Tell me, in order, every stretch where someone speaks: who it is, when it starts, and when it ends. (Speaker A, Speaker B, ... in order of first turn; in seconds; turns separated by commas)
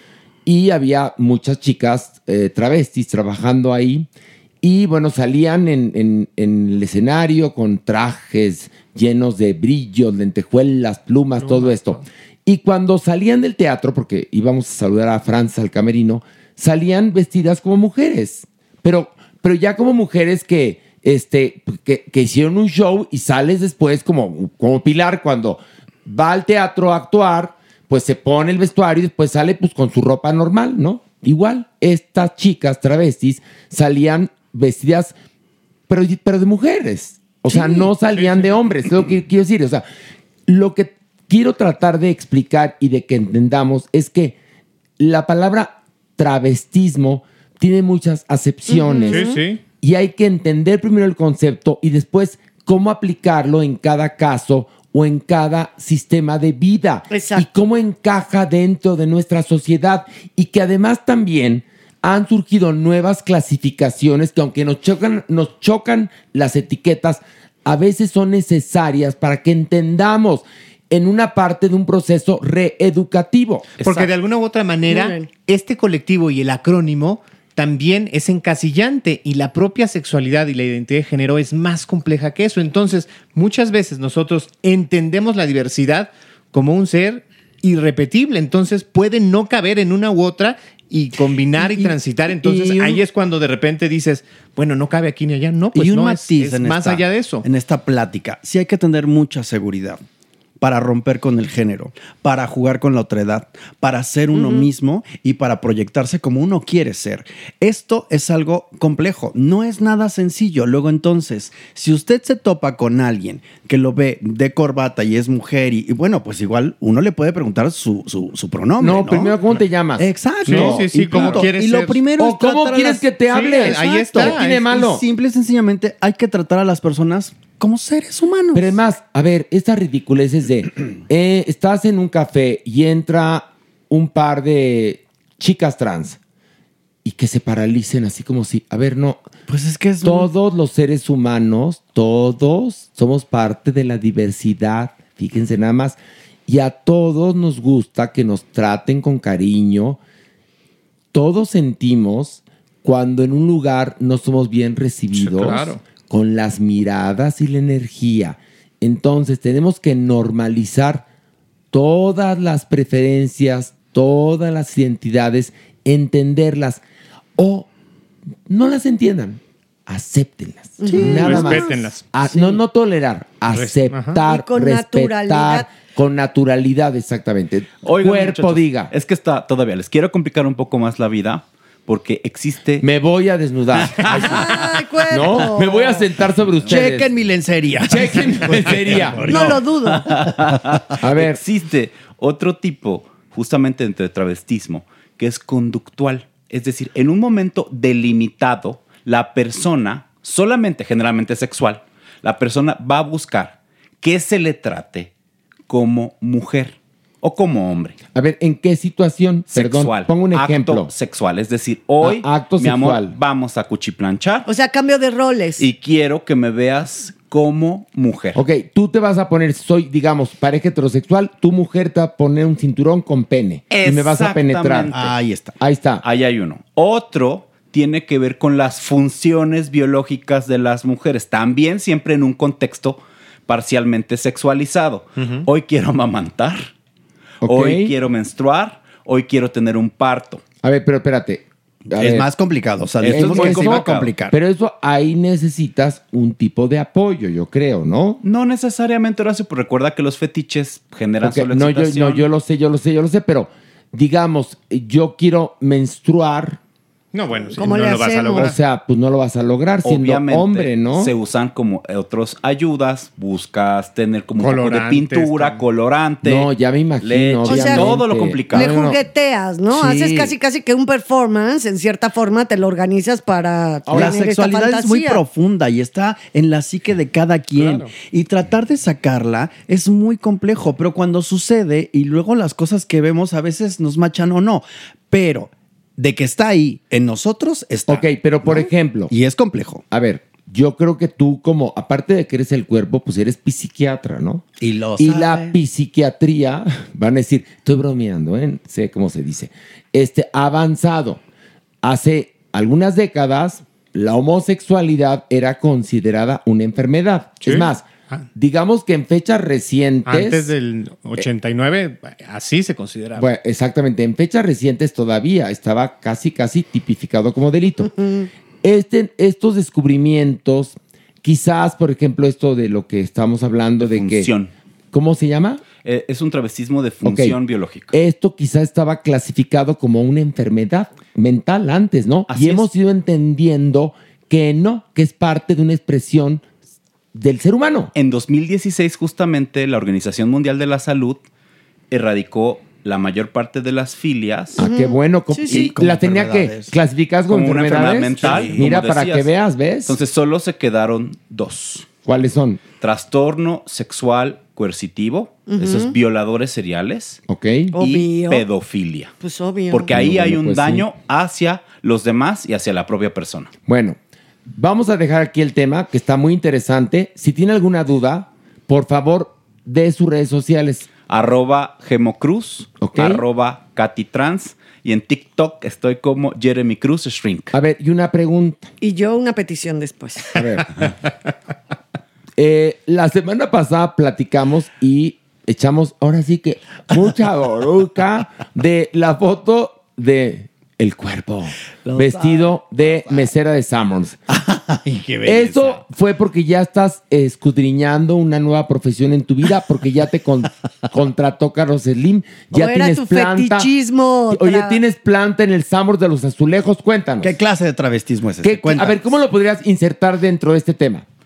Speaker A: 0.4-4.1, Speaker A: 4.6-35.1, Speaker B: 11.4-12.0, Speaker A: 35.9-39.8, Speaker C: 37.5-37.9, Speaker B: 38.1-38.5, Speaker A: 40.5-44.4, Speaker A: 45.0-73.8, Speaker C: 48.7-49.4, Speaker B: 49.0-49.6, Speaker C: 57.1-57.5, Speaker D: 73.8-74.1, Speaker B: 73.8-97.4, Speaker C: 74.9-75.3, Speaker E: 91.6-93.0, Speaker E: 95.7-100.0, Speaker E: 100.6-119.3, Speaker C: 104.3-104.7, Speaker A: 118.8-121.5, Speaker E: 120.0-128.7, Speaker B: 120.5-122.1, Speaker A: 122.2-125.0, Speaker B: 123.3-124.7, Speaker A: 128.5-136.2, Speaker A: 137.0-139.3, Speaker E: 139.5-140.3, Speaker A: 140.0-150.0, Speaker A: 151.1-161.0, Speaker B: 155.1-155.8, Speaker A: 161.7-166.8, Speaker A: 167.4-167.7, Speaker A: 168.5-178.9, Speaker C: 170.8-171.8, Speaker B: 171.0-172.5, Speaker B: 173.5-174.2, Speaker C: 174.2-175.7, Speaker D: 177.8-182.8, Speaker A: 182.8-187.1, Speaker C: 184.1-186.1, Speaker E: 186.6-189.6, Speaker A: 187.8-189.5, Speaker C: 189.2-190.1, Speaker D: 190.1-205.1, Speaker A: 191.0-191.4, Speaker D: 205.7-208.0, Speaker A: 208.1-210.9, Speaker D: 209.5-214.5, Speaker A: 212.0-213.2, Speaker C: 214.4-215.7, Speaker D: 215.6-218.4, Speaker A: 218.3-224.9, Speaker D: 223.7-225.1, Speaker E: 224.9-225.6, Speaker A: 225.6-226.0, Speaker D: 226.0-236.7, Speaker A: 237.4-237.9, Speaker D: 237.4-240.4, Speaker A: 240.6-242.3, Speaker E: 241.9-244.3, Speaker A: 243.0-248.2, Speaker D: 243.0-244.1, Speaker D: 248.2-252.3, Speaker A: 251.2-256.6, Speaker B: 257.1-258.6, Speaker C: 257.6-258.5, Speaker A: 258.3-261.1, Speaker D: 259.8-266.5, Speaker B: 264.4-265.7, Speaker A: 266.2-269.0, Speaker D: 267.0-268.7, Speaker C: 267.4-268.0, Speaker C: 268.5-275.2, Speaker A: 273.9-274.2, Speaker E: 273.9-289.8, Speaker B: 277.6-277.9, Speaker A: 287.9-289.1, Speaker A: 289.9-294.4, Speaker E: 294.6-295.5, Speaker A: 295.0-301.2, Speaker A: 301.8-310.5, Speaker B: 307.4-308.2, Speaker B: 310.1-313.3, Speaker A: 313.1-317.9, Speaker C: 318.0-318.3, Speaker A: 318.6-324.3, Speaker D: 323.8-324.5, Speaker A: 324.9-325.6, Speaker D: 325.8-327.9, Speaker A: 327.0-336.4, Speaker D: 332.3-332.7, Speaker A: 337.1-337.9, Speaker D: 337.9-341.2, Speaker D: 341.9-344.6, Speaker A: 344.6-350.0, Speaker C: 344.6-345.7, Speaker E: 345.5-346.7, Speaker D: 347.3-349.3, Speaker E: 348.1-348.7, Speaker D: 349.9-351.9, Speaker A: 352.0-352.6, Speaker D: 352.8-357.2, Speaker C: 355.5-355.9, Speaker A: 357.3-357.7, Speaker C: 357.7-358.5, Speaker D: 357.8-359.1, Speaker C: 359.2-359.9, Speaker D: 359.7-363.5, Speaker A: 359.9-360.9, Speaker A: 363.6-364.0, Speaker A: 364.5-370.9, Speaker D: 371.1-377.5, Speaker A: 372.8-373.2, Speaker A: 377.5-378.7, Speaker C: 378.8-380.3, Speaker A: 380.3-380.9, Speaker A: 382.4-394.2, Speaker E: 391.9-393.2, Speaker E: 394.3-395.8, Speaker A: 395.2-403.7, Speaker C: 402.5-404.8, Speaker A: 404.3-407.4, Speaker E: 407.2-409.0, Speaker A: 408.4-411.1